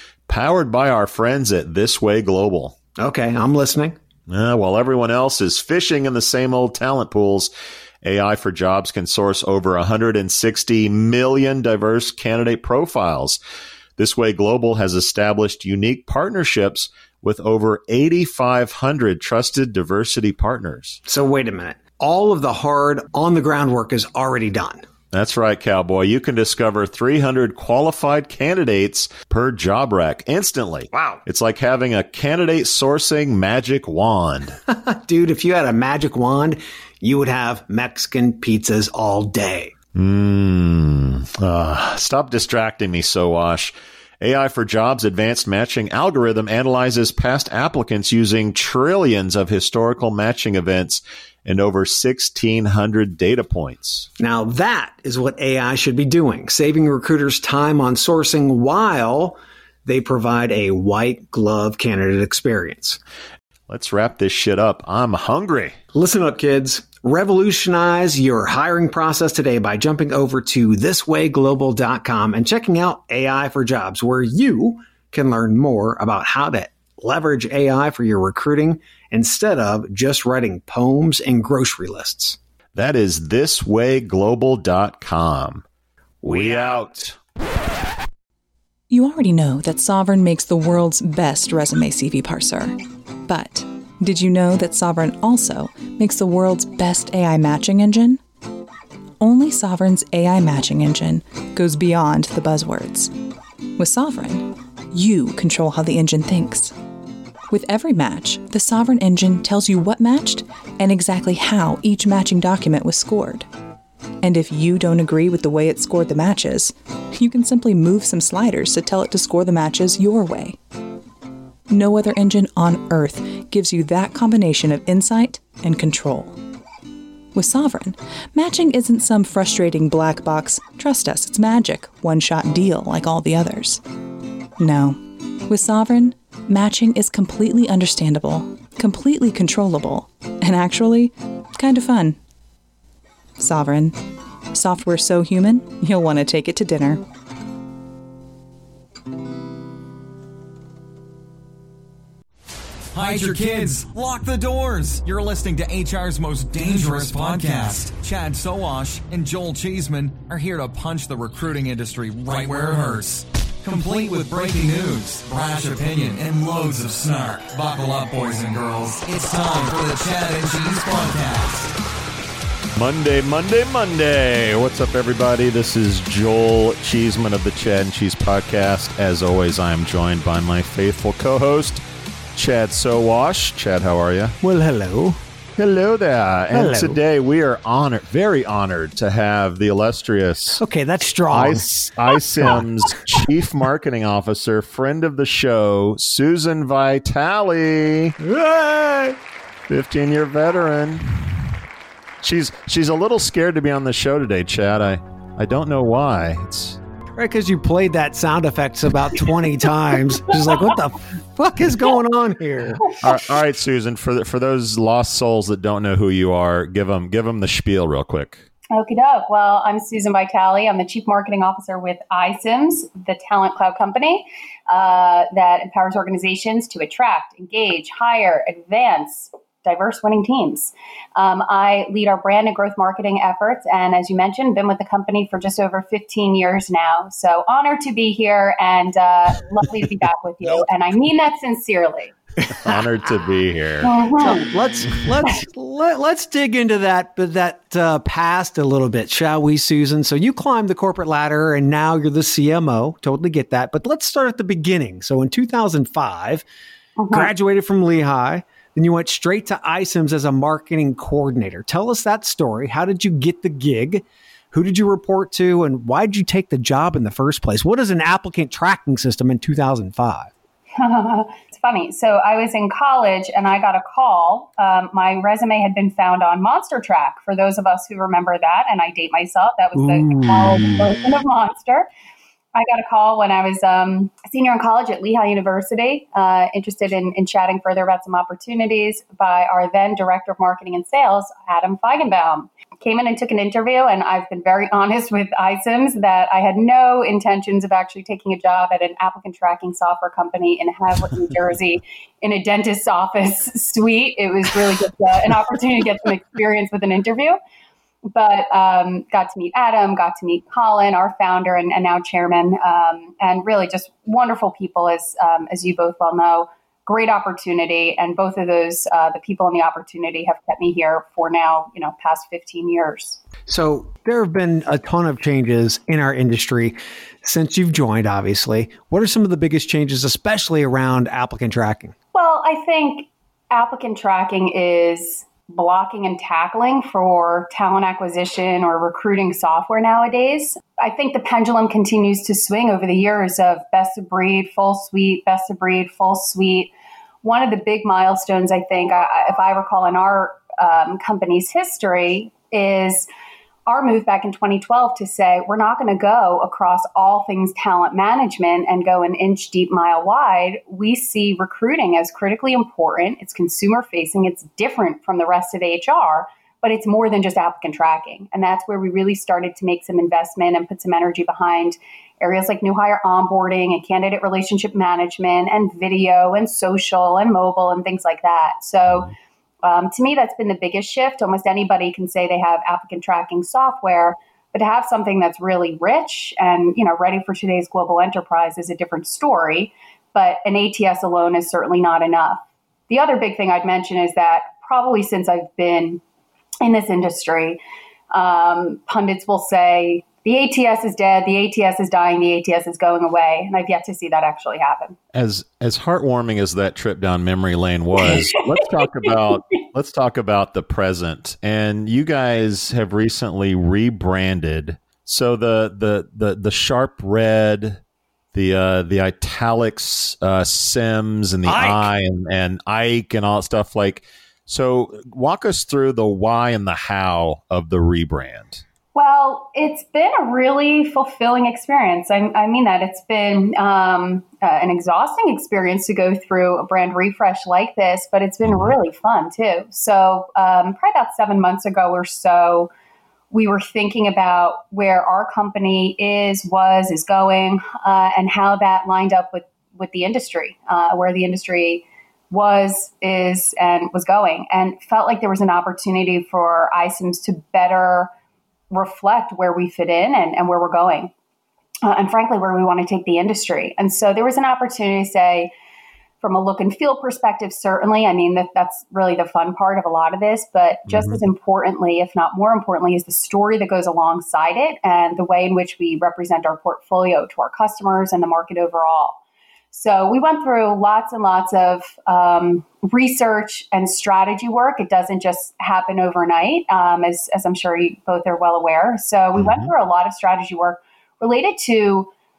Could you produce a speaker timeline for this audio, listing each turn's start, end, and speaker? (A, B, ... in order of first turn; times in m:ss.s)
0:00.3-0:02.7 A
0:03.0-0:04.0 B
0:04.3-0:07.5 A
0:08.0-0:13.4 A
0:14.0-0:21.0 A
0:21.0-0:24.8 B
0:25.1-0:34.6 A
0:30.9-0:31.2 B
0:34.7-0:39.7 B
0:39.9-0:54.1 A
0:54.2-1:03.0 B
1:03.7-1:05.7 A
1:05.9-1:22.4 B
1:22.7-1:25.6 A
1:26.2-1:27.1 A
1:26.2-1:27.0 B
1:28.9-1:32.8 C
1:33.3-1:38.2 C
1:39.2-1:43.1 C
1:43.8-1:46.7 C
1:47.5-1:53.4 C
1:54.2-2:00.6 C
2:01.7-2:06.4 C
2:07.3-2:13.8 C
2:14.6-2:22.2 C
2:23.4-2:24.0 C
2:24.5-2:27.0 C
2:32.9-2:51.7 D
2:52.8-3:01.8 A
3:02.4-3:04.4 A
3:04.4-3:05.2 B
3:05.6-3:10.6 A
3:06.5-3:07.0 B
3:10.6-3:11.7 B
3:11.3-3:18.1 A
3:18.2-3:19.2 B
3:19.7-3:21.2 A
3:22.2-3:26.8 A
3:27.1-3:32.9 B
3:33.0-3:38.4 A
3:38.7-4:02.1 E
4:02.5-4:03.9 A
4:03.8-4:04.5 E
4:04.2-4:16.4 B
4:17.0-4:17.3 E
4:17.1-4:30.3 B
4:30.8-4:41.9 E
4:39.7-4:40.9 B
4:42.5-5:07.4 E
5:08.1-5:23.2 E
5:23.5-5:31.9 B
5:32.1-5:46.7 E
5:47.2-5:53.1 E
5:53.7-6:19.1 E
6:19.6-6:36.0 E
6:36.6-6:37.6 E
6:38.1-6:45.0 E
6:45.1-6:57.8 A
6:48.0-6:49.1 E
6:58.3-7:08.6 A
7:01.4-7:01.9 B
7:08.9-7:22.7 E
7:18.4-7:18.7 A
7:23.3-7:38.1 E
7:38.7-7:41.1 E
7:41.8-7:45.5 E
7:46.2-7:59.2 E
7:50.9-7:51.2 A
7:59.7-8:12.1 E
8:09.4-8:09.7 A